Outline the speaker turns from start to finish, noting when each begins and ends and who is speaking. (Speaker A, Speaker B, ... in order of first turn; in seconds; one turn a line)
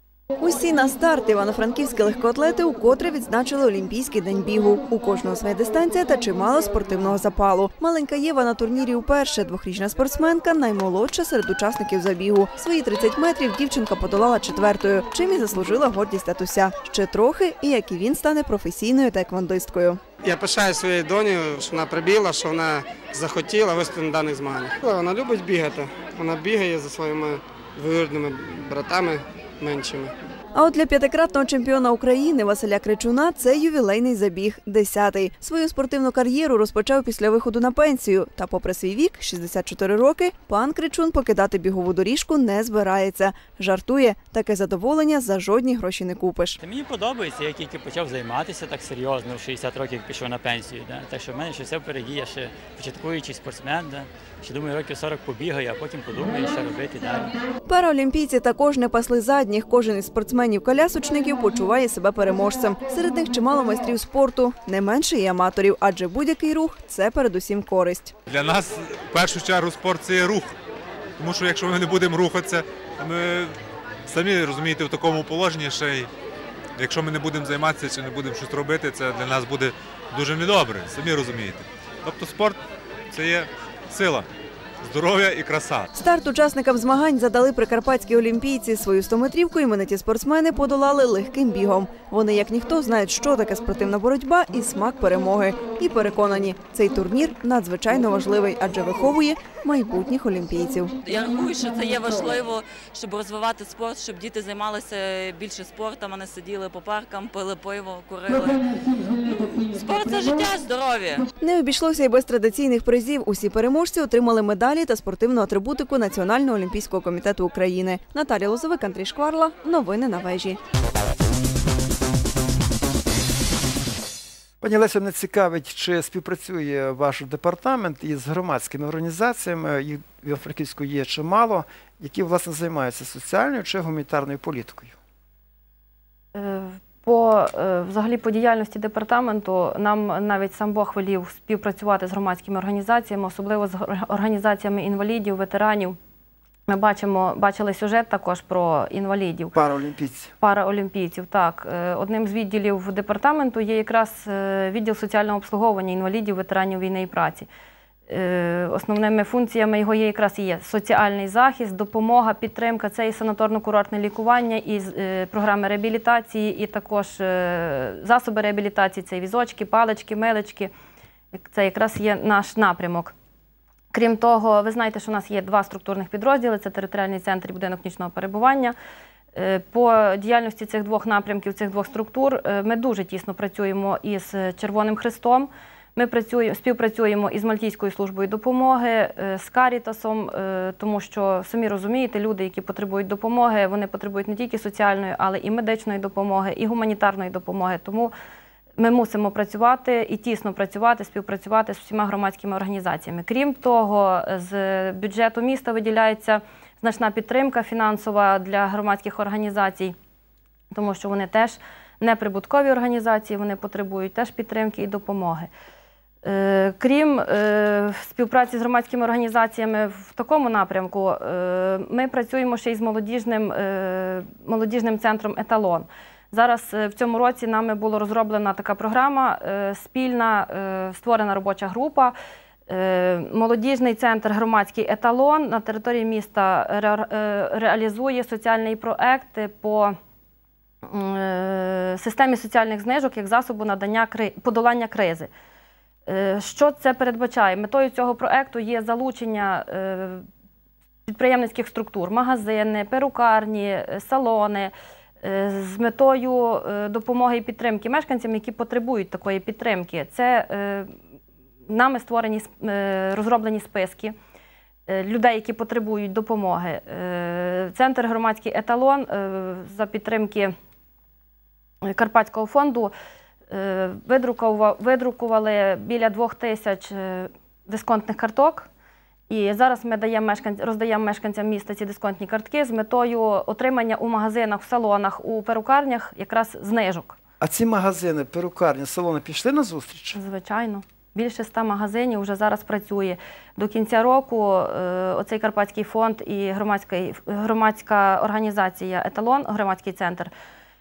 Speaker A: 0.4-20.0
Speaker B: 20.2-30.1
Speaker A: 30.5-46.6
Speaker C: 46.6-57.3
Speaker A: 57.7-68.1
Speaker D: 68.3-70.5
Speaker D: 71.2-73.5
Speaker D: 74.1-76.1
Speaker D: 76.8-84.3
Speaker D: 84.8-85.9
Speaker A: 85.9-100.9
Speaker E: 101.0-111.3
Speaker A: 111.4-120.6
Speaker F: 124.6-134.9
Speaker G: 136.3-146.0
Speaker G: 146.7-149.5
Speaker F: 149.5-150.3
Speaker G: 150.4-157.5
Speaker G: 158.1-170.7
Speaker G: 171.3-173.1
Speaker G: 173.9-178.7
Speaker G: 179.3-198.1
Speaker G: 198.8-209.9
Speaker G: 210.7-215.5
Speaker G: 216.2-232.1
Speaker G: 232.7-239.9
Speaker G: 240.8-245.3
Speaker G: 246.1-250.2
Speaker G: 251.1-260.9
Speaker G: 261.7-264.1
Speaker G: 264.9-270.5
Speaker G: 271.8-272.9
Speaker G: 273.5-278.7
Speaker G: 279.3-287.2
Speaker F: 287.4-290.2
Speaker G: 290.1-300.3